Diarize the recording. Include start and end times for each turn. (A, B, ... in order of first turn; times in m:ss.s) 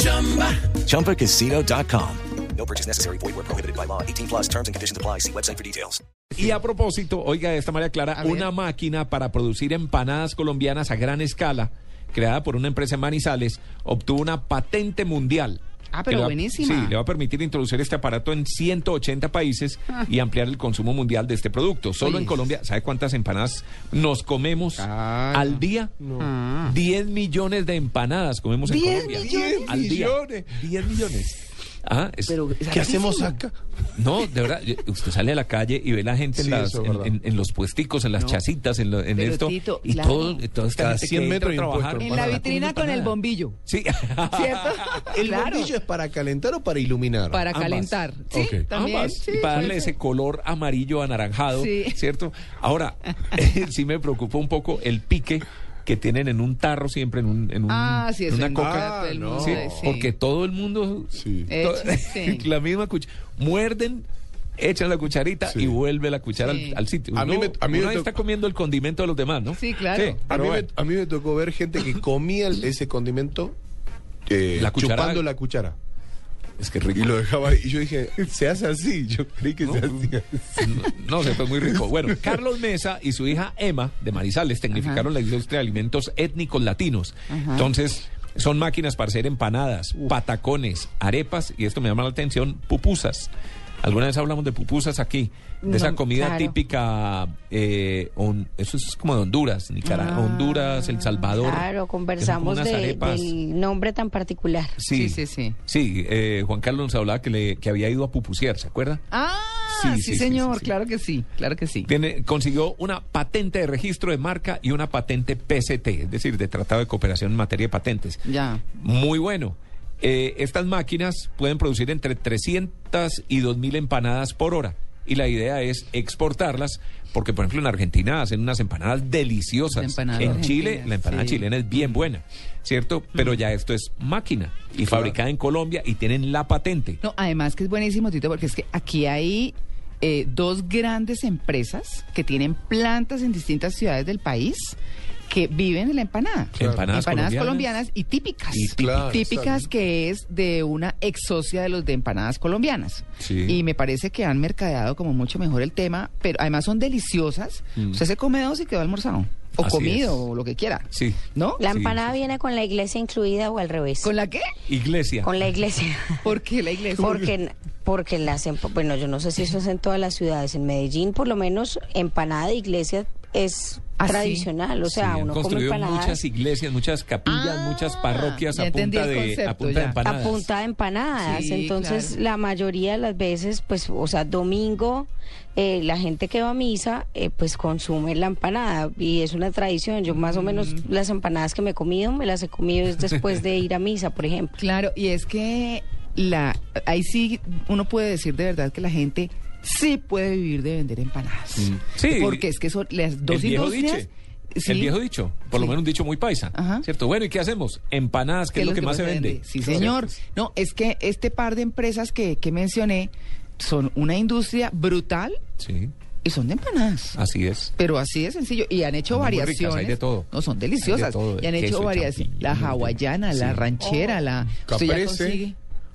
0:00.6-0:06.0 A
0:06.3-0:25.9 B
0:08.1-0:08.5 C
0:15.9-0:17.0 C
0:22.0-0:22.5 C
0:24.8-0:25.6 C
0:26.0-0:26.3 D
0:26.2-0:26.7 C
0:26.6-0:32.4 B
0:28.6-0:29.6 C
0:29.0-0:30.4 D
0:32.3-0:33.4 C
0:32.7-0:33.5 D
0:34.0-0:45.1 B
0:36.4-0:37.1 D
0:39.1-0:40.4 C
0:40.7-0:42.5 D
0:42.0-0:43.6 C
0:44.3-0:45.8 C
0:45.1-0:47.4 D
0:47.3-0:49.9 C
0:47.5-0:48.0 B
0:48.3-0:48.7 D
0:48.7-1:04.0 B
0:51.5-0:52.0 C
0:57.7-1:00.1 C
0:58.6-0:59.9 D
1:01.2-1:01.5 D
1:01.5-1:02.5 C
1:04.6-1:10.7 B
1:05.5-1:05.8 D
1:06.4-1:06.8 C
1:07.1-1:08.1 D
1:09.5-1:10.2 C
1:10.3-1:13.6 D
1:14.3-1:15.8 D
1:14.6-1:15.3 B
1:16.6-1:17.2 B
1:16.9-1:20.6 D
1:19.6-1:33.3 B
1:22.1-1:22.3 D
1:24.7-1:25.1 C
1:27.3-1:27.7 C
1:33.8-1:43.3 B
1:35.6-1:36.5 E
1:39.8-1:41.3 C
1:41.3-1:44.8 E
1:44.8-1:49.0 B
1:44.9-1:45.6 C
1:49.1-1:51.9 C
1:49.7-1:50.7 B
1:51.8-2:17.0 B
1:58.2-1:58.6 C
2:09.7-2:12.0 C
2:17.0-2:24.8 C
2:25.3-2:41.6 C
2:26.5-2:27.8 B
2:26.6-2:26.8 D
2:28.5-2:29.2 B
2:28.6-2:29.7 D
2:33.2-2:33.6 B
2:39.6-2:40.3 B
2:40.9-2:42.2 B
2:41.6-2:44.1 E
2:44.0-2:44.5 C
2:44.7-2:45.4 B
2:45.2-2:46.3 E
2:46.2-2:47.3 C
2:47.0-2:56.2 E
2:54.0-2:54.5 C
2:54.8-3:00.5 B
2:57.2-3:00.0 C
3:00.0-3:14.6 E
3:01.1-3:02.2 C
3:10.1-3:10.8 C
3:14.6-3:25.0 C
3:21.6-3:22.4 B
3:23.3-3:24.1 B
3:24.6-3:30.1 B
3:25.5-3:25.8 C
3:26.5-3:26.8 C
3:28.5-3:35.4 C
3:35.6-3:35.9 B
3:36.2-3:37.2 C
3:37.1-3:37.7 B
3:37.8-3:45.6 C
3:39.1-3:40.3 B
3:40.8-3:43.9 B
3:44.6-3:45.4 D